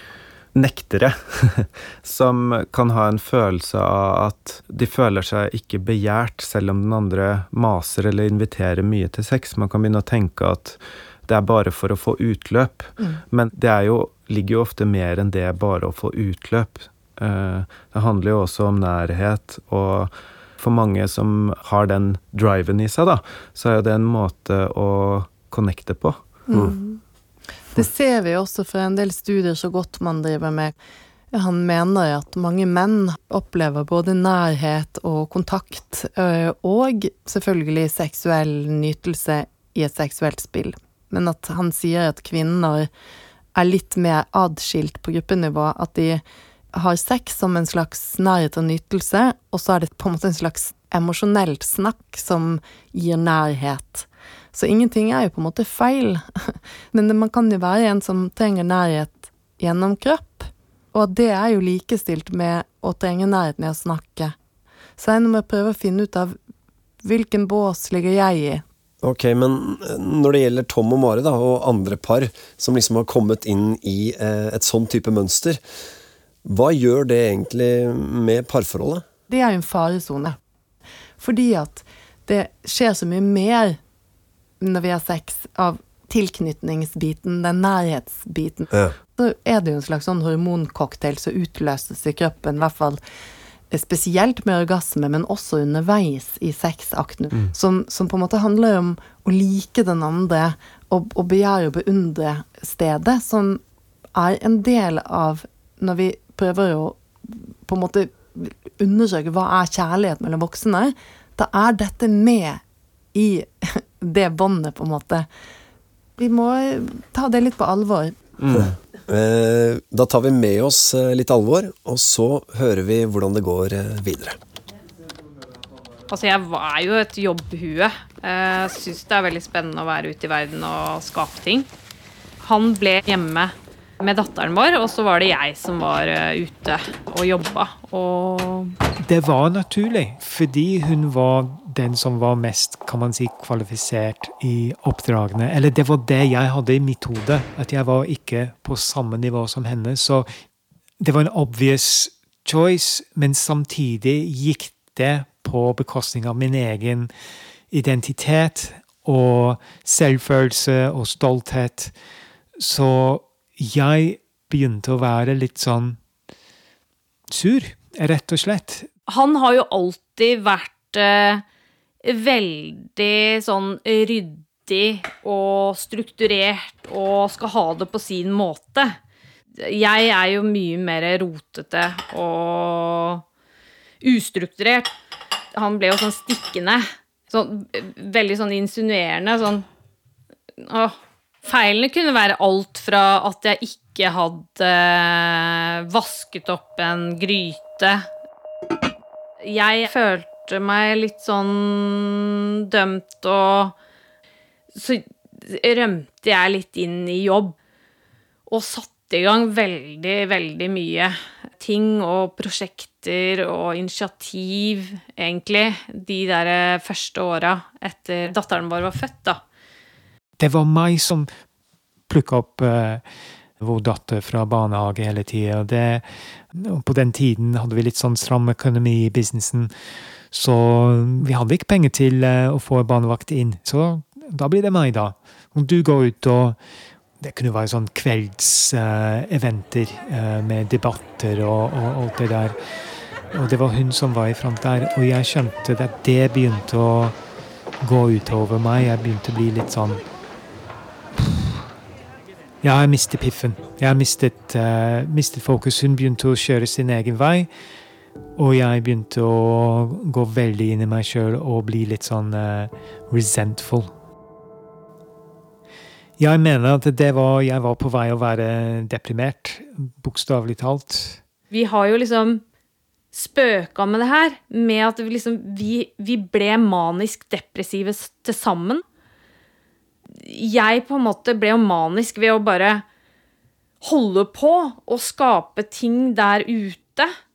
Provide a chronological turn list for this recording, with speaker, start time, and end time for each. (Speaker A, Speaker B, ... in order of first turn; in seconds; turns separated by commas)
Speaker A: 0.5-26.2, Speaker B: 26.5-27.0, Speaker B: 27.7-30.7, Speaker B: 31.3-42.9, Speaker B: 43.5-46.2, Speaker B: 46.7-64.3, Speaker B: 65.0-66.3, Speaker B: 67.0-68.6, Speaker C: 69.0-75.6, Speaker C: 76.4-79.0, Speaker B: 79.3-80.4, Speaker B: 81.2-83.8, Speaker B: 84.6-93.0, Speaker B: 93.7-103.6, Speaker B: 104.2-112.6, Speaker B: 113.1-115.3, Speaker B: 116.2-118.2, Speaker A: 118.4-118.7, Speaker C: 118.5-124.4, Speaker D: 126.1-131.7, Speaker D: 132.4-138.8, Speaker E: 139.0-150.3, Speaker E: 151.0-157.1, Speaker E: 157.7-161.9, Speaker E: 162.6-166.0, Speaker E: 167.3-168.9, Speaker D: 169.1-171.4, Speaker D: 172.0-178.9, Speaker D: 179.6-183.2, Speaker D: 184.0-184.9, Speaker D: 185.5-189.7, Speaker D: 190.6-198.1, Speaker D: 199.4-203.7, Speaker D: 204.7-207.6, Speaker D: 208.5-219.4, Speaker E: 220.4-221.3, Speaker E: 222.1-223.0, Speaker E: 223.6-229.7, Speaker E: 230.3-236.6, Speaker E: 237.2-242.6, Speaker E: 243.3-247.2, Speaker E: 247.8-250.0, Speaker E: 251.2-251.5, Speaker E: 252.6-257.5, Speaker E: 258.4-263.9, Speaker E: 266.2-271.2, Speaker D: 271.5-272.4, Speaker D: 273.1-278.8, Speaker D: 280.1-282.8, Speaker D: 283.8-287.1